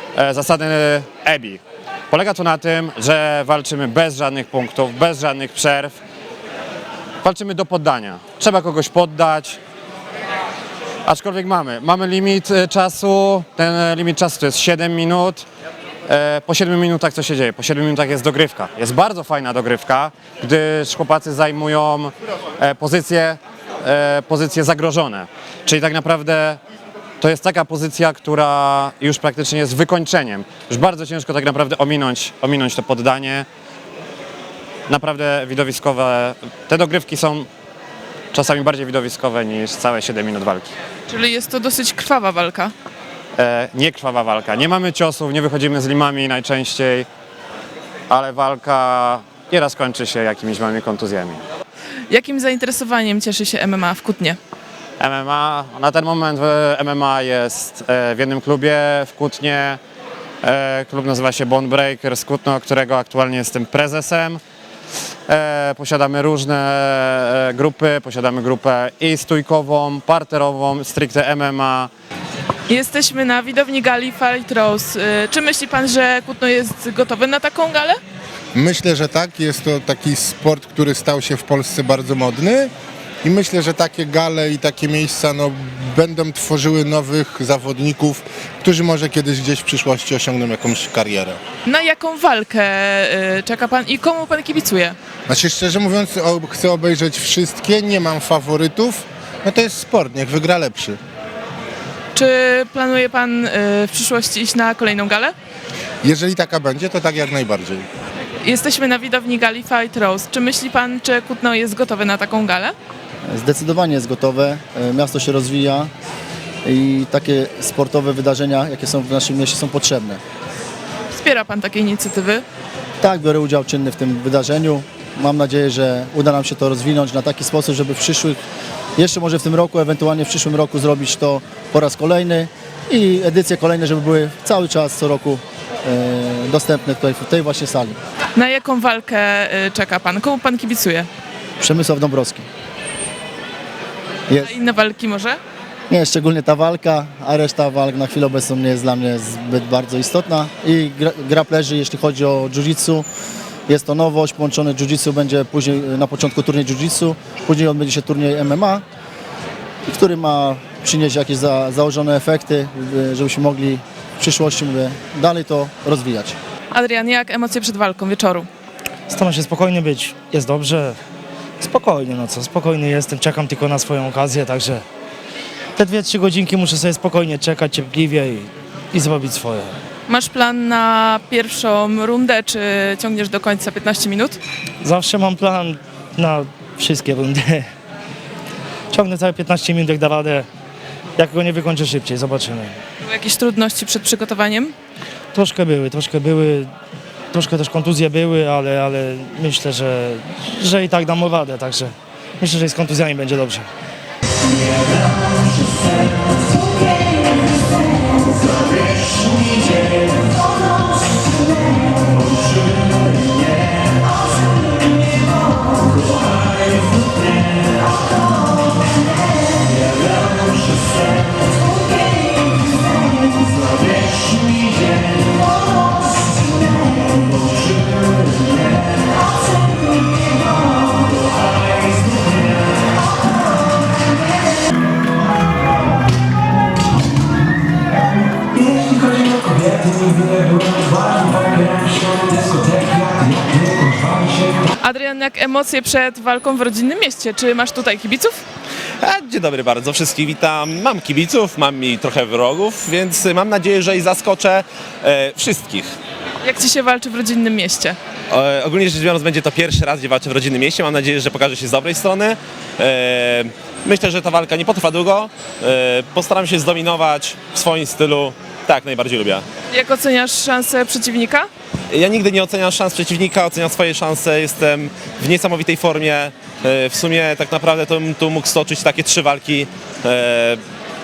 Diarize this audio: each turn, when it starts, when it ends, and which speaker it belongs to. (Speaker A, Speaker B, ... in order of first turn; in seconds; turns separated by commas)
Speaker A: 0.1-1.6, Speaker A: 2.1-6.0, Speaker A: 7.2-9.6, Speaker A: 11.1-15.4, Speaker A: 16.1-26.6, Speaker A: 27.2-33.5, Speaker A: 34.9-37.5, Speaker A: 38.3-40.7, Speaker B: 41.1-42.7, Speaker A: 43.4-47.1, Speaker A: 48.1-51.4, Speaker B: 52.1-54.4, Speaker A: 55.0-59.8, Speaker A: 60.4-64.4, Speaker A: 65.3-71.9, Speaker B: 72.7-78.0, Speaker C: 78.5-82.7, Speaker C: 83.2-91.4, Speaker B: 91.7-95.0, Speaker C: 95.3-101.0, Speaker B: 102.1-105.3, Speaker C: 106.0-107.8, Speaker B: 108.4-112.7, Speaker D: 113.3-115.9, Speaker D: 116.6-120.2, Speaker B: 121.1-122.4, Speaker D: 123.0-128.4, Speaker D: 129.0-138.0, Speaker B: 138.3-141.1, Speaker D: 141.6-142.4, Speaker D: 144.3-144.6, Speaker B: 144.4-145.4, Speaker D: 145.9-153.1, Speaker D: 153.7-158.8, Speaker D: 159.9-166.4, Speaker B: 166.7-168.5, Speaker E: 169.1-171.0, Speaker E: 171.6-174.8, Speaker E: 175.8-179.7, Speaker B: 180.1-184.4, Speaker E: 184.8-187.7, Speaker E: 188.9-190.5, Speaker E: 191.2-192.8, Speaker B: 193.0-194.7, Speaker E: 195.3-196.7, Speaker E: 197.3-203.7, Speaker B: 244.8-248.4, Speaker F: 249.0-255.9, Speaker B: 256.4-258.0, Speaker F: 258.3-269.4, Speaker B: 269.7-271.5, Speaker F: 271.9-280.6